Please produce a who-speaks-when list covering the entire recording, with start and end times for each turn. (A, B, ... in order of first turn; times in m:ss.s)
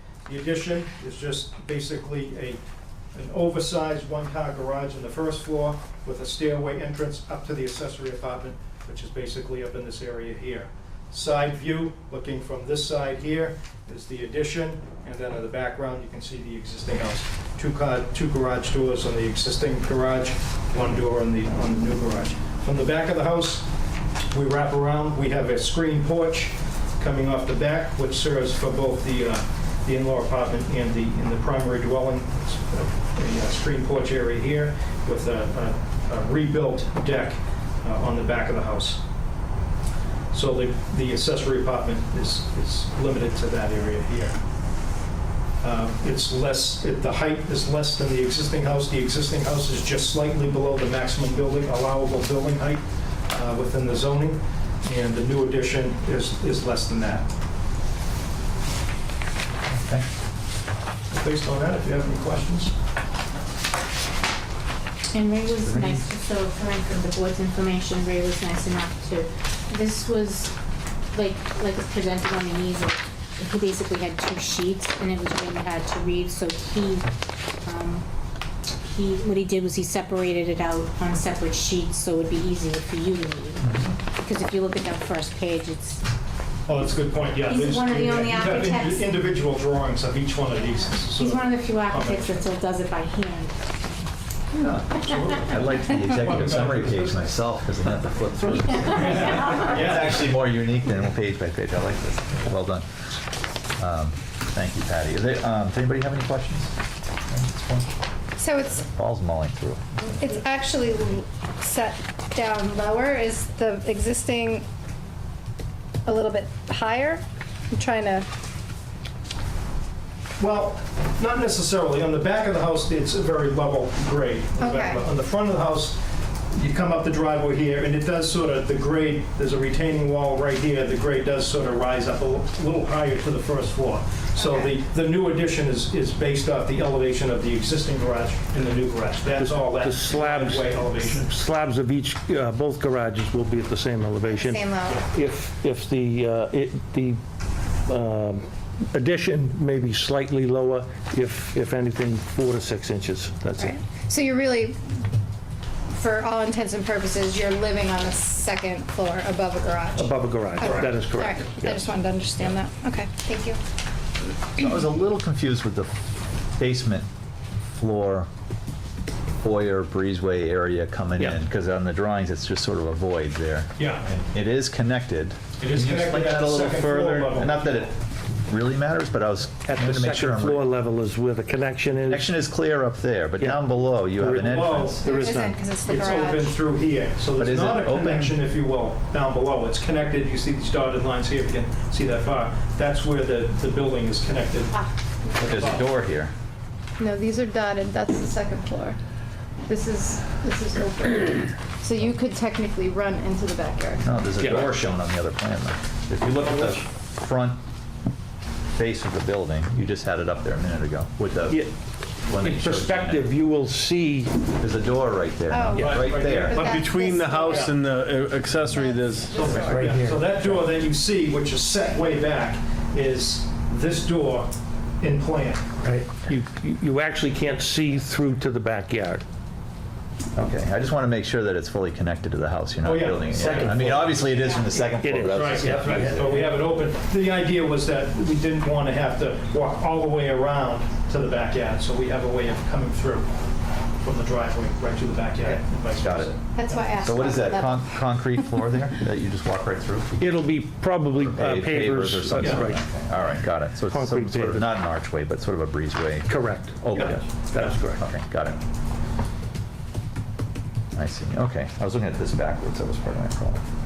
0:00.2-0:02.6 A
0:03.1-0:23.7 A
0:24.3-0:39.0 A
0:40.3-0:44.4 A
0:45.6-0:57.3 A
0:59.7-1:00.1 B
1:01.1-1:02.7 A
1:05.1-1:10.5 C
1:05.6-1:06.0 B
1:11.1-1:18.0 C
1:18.8-1:26.0 C
1:23.6-1:23.9 B
1:26.7-1:32.4 A
1:27.4-1:29.1 C
1:30.6-1:34.1 C
1:34.6-1:42.8 B
1:34.9-1:37.2 A
1:38.5-1:40.0 C
1:39.3-1:40.2 A
1:43.8-1:46.7 B
1:47.3-1:47.9 B
1:48.4-1:48.8 D
1:48.8-1:50.2 B
1:50.2-1:54.6 D
1:56.0-1:58.3 D
2:00.4-2:06.0 A
2:04.6-2:05.0 D
2:06.5-2:21.2 A
2:14.4-2:14.7 D
2:19.4-2:27.2 E
2:24.2-2:25.0 D
2:27.8-2:33.7 E
2:33.6-2:35.0 D
2:35.9-2:43.6 D
2:40.0-2:41.9 E
2:40.6-2:40.9 A
2:44.5-2:46.0 B
2:46.5-2:47.1 B
2:47.7-2:48.3 B
2:49.4-3:00.6 B
2:53.8-2:54.0 A
2:55.6-2:57.8 A
2:59.6-3:02.3 E
3:02.1-3:05.0 B
3:04.2-3:05.5 E
3:04.4-3:05.2 A
3:05.0-3:06.5 D
3:05.8-3:14.8 A
3:07.4-3:08.4 B
3:15.3-3:15.9 A
3:15.4-3:16.3 B
3:17.0-3:19.0 D
3:19.7-3:24.1 D
3:24.0-3:27.6 B
3:24.4-3:24.7 E
3:28.8-3:31.7 B
3:32.2-3:33.3 B
3:32.4-3:34.3 E
3:34.6-3:36.8 B
3:35.5-3:37.7 D
3:35.8-3:36.6 A
3:36.5-3:39.5 F
3:38.7-3:40.0 D
3:39.3-3:45.7 A
3:39.5-3:40.6 E
3:45.8-3:49.2 E
3:50.3-3:56.4 B
3:52.8-3:54.3 A
3:53.3-3:54.2 E
3:55.0-3:56.4 E
3:55.3-4:03.3 A
4:04.0-4:06.9 A
4:06.0-4:10.2 B
4:06.5-4:07.8 D
4:10.2-4:12.8 E
4:11.2-4:18.6 B
4:12.4-4:12.7 A
4:13.9-4:14.7 E
4:16.3-4:18.0 E
4:20.9-4:23.6 B